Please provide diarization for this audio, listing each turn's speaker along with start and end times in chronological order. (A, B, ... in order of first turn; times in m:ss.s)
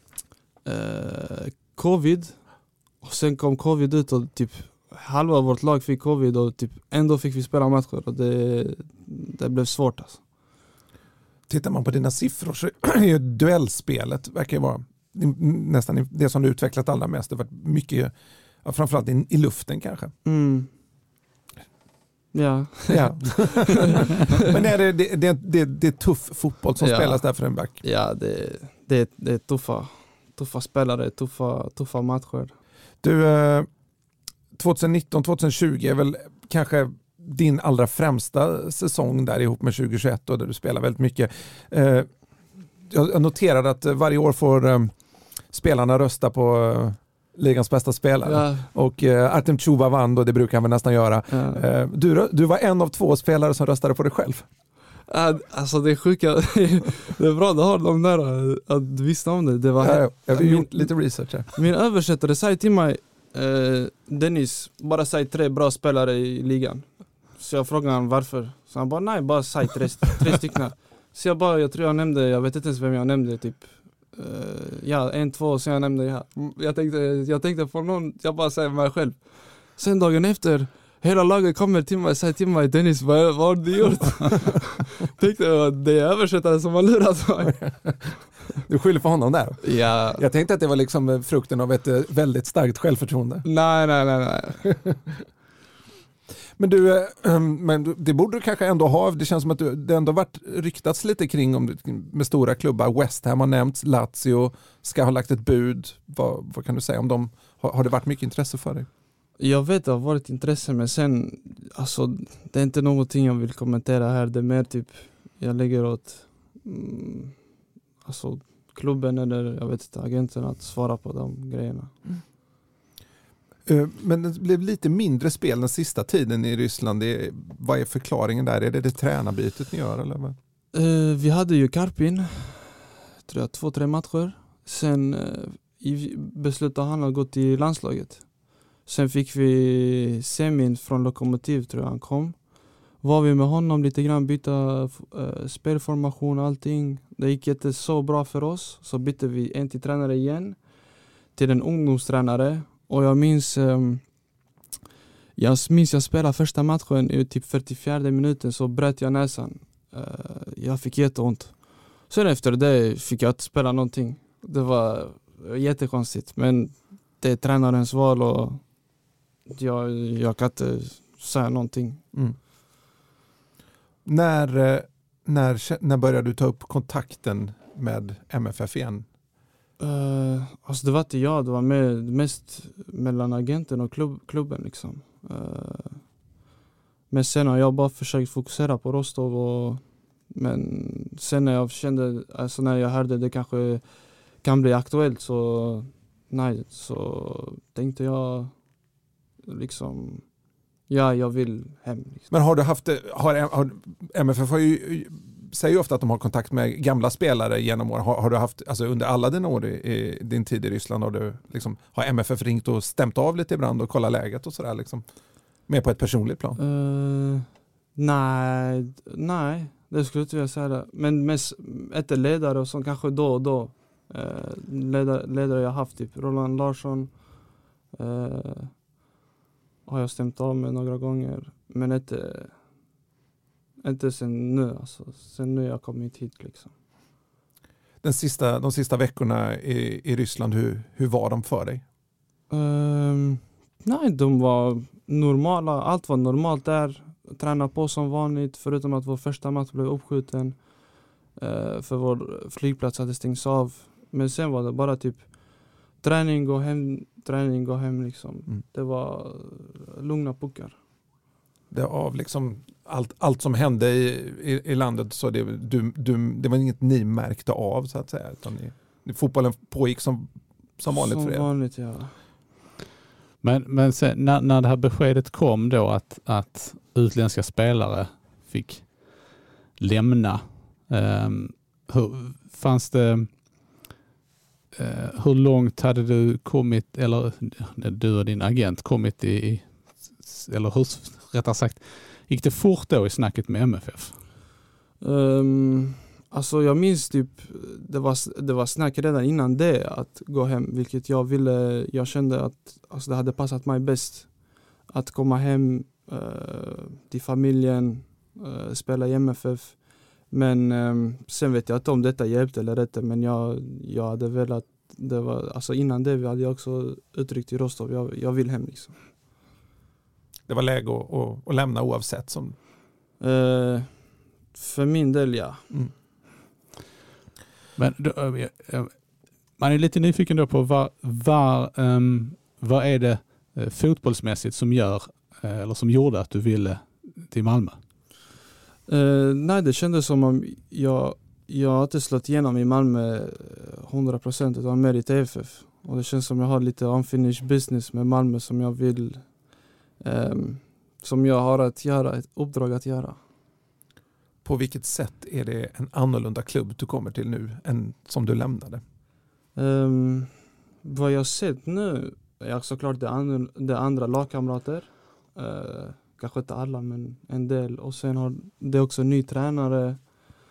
0:00.6-0:10.2 A
0:11.5-0:20.1 B
0:20.2-0:20.7 A
0:22.3-0:24.1 A
0:22.9-0:27.8 B
0:26.8-0:32.5 A
0:33.0-0:33.7 B
0:34.5-0:42.1 B
0:42.8-0:44.9 B
0:45.5-0:54.4 B
0:48.2-0:48.7 A
0:51.3-0:51.6 A
0:55.1-1:27.8 A
0:59.8-1:01.5 B
1:27.5-1:28.0 B
1:28.6-1:33.4 B
1:29.6-1:30.2 A
1:33.4-1:34.6 A
1:36.6-1:48.9 B
1:49.4-1:57.4 A
1:58.0-2:02.0 A
2:03.6-2:10.4 B
2:10.7-2:30.6 A
2:31.3-2:34.1 A
2:35.4-2:48.7 A
2:49.5-2:52.0 A
2:54.0-2:59.1 B
2:59.8-3:06.1 A
3:07.1-3:18.6 A
3:19.4-3:20.3 A
3:20.9-3:22.3 A
3:22.3-3:35.0 B
3:35.7-3:36.6 B
3:36.6-3:47.2 A
3:47.9-3:48.7 A
3:49.8-3:52.6 A
3:53.8-3:56.7 A
3:58.0-4:01.8 B
4:02.5-4:10.7 A
4:11.3-4:20.8 A
4:21.7-4:31.5 B
4:30.9-4:32.1 A
4:33.4-4:43.3 C
4:44.8-4:54.2 C
4:55.0-5:19.0 A
5:20.5-5:22.6 B
5:23.2-5:25.6 A
5:27.8-5:29.0 C
5:29.6-5:37.8 C
5:38.9-5:49.4 A
5:50.0-5:53.2 A
5:54.4-5:58.8 B
5:59.5-6:10.1 A